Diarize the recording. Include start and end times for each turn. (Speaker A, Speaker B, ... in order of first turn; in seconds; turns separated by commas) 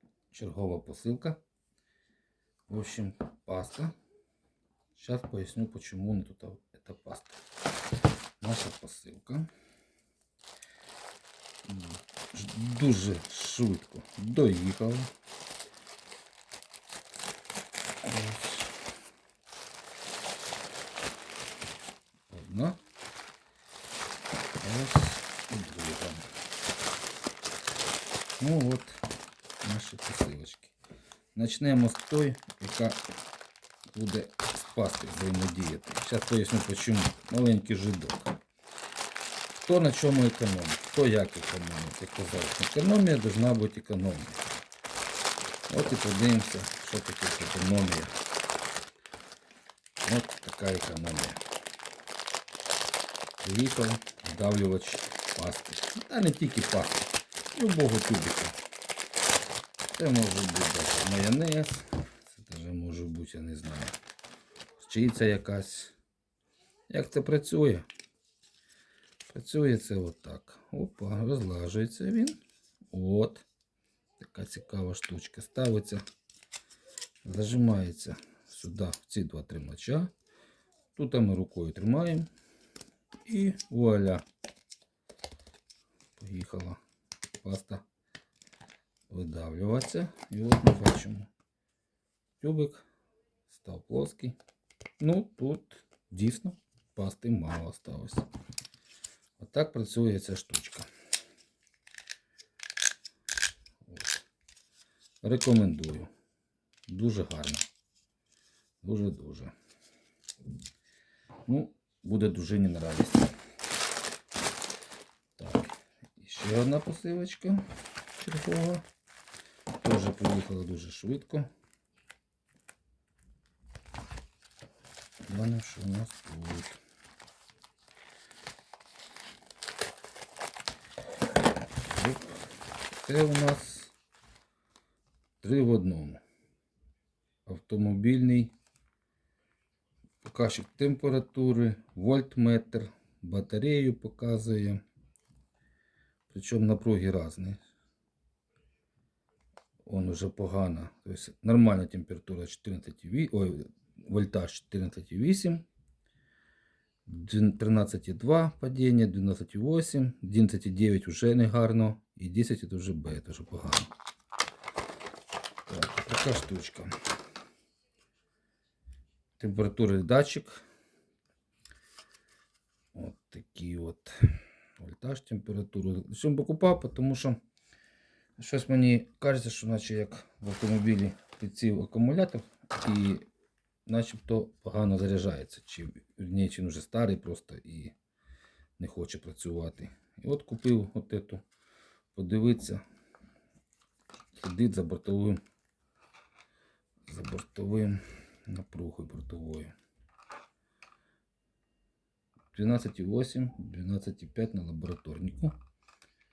Speaker A: 0.3-1.4, Speaker A: 2.7-4.0, Speaker A: 5.0-7.4, Speaker A: 8.4-9.5, Speaker A: 11.7-15.1, Speaker A: 18.0-18.7, Speaker A: 22.3-22.8, Speaker A: 24.6-26.3, Speaker A: 28.4-29.0, Speaker A: 29.6-30.8, Speaker A: 31.4-33.0, Speaker A: 33.9-38.4, Speaker A: 39.6-44.5, Speaker A: 45.7-48.2, Speaker A: 50.0-51.4, Speaker A: 53.4-58.6, Speaker A: 59.9-64.0, Speaker A: 64.8-66.0, Speaker A: 66.9-67.9, Speaker A: 69.3-72.4, Speaker A: 72.9-73.5, Speaker A: 74.2-76.0, Speaker A: 77.2-80.1, Speaker A: 81.0-82.3, Speaker A: 83.2-84.2, Speaker A: 86.2-86.8, Speaker A: 87.4-87.8, Speaker A: 89.1-91.3, Speaker A: 92.4-92.8, Speaker A: 93.5-94.4, Speaker A: 95.0-98.3, Speaker A: 99.4-100.9, Speaker A: 103.9-104.2, Speaker A: 105.2-106.1, Speaker A: 106.9-107.7, Speaker A: 108.8-109.5, Speaker A: 111.5-113.3, Speaker A: 115.4-117.7, Speaker A: 118.2-118.9, Speaker A: 119.8-121.5, Speaker A: 125.2-126.8, Speaker A: 131.9-133.9, Speaker A: 135.4-136.2, Speaker A: 137.5-138.5, Speaker A: 140.2-144.8, Speaker A: 146.3-147.6, Speaker A: 149.8-155.7, Speaker A: 157.1-163.9, Speaker A: 165.7-166.9, Speaker A: 169.4-170.7, Speaker A: 172.9-177.4, Speaker A: 178.4-183.3, Speaker A: 183.9-187.9, Speaker A: 188.8-191.4, Speaker A: 192.1-192.8, Speaker A: 194.4-195.4, Speaker A: 197.1-199.7, Speaker A: 202.5-205.6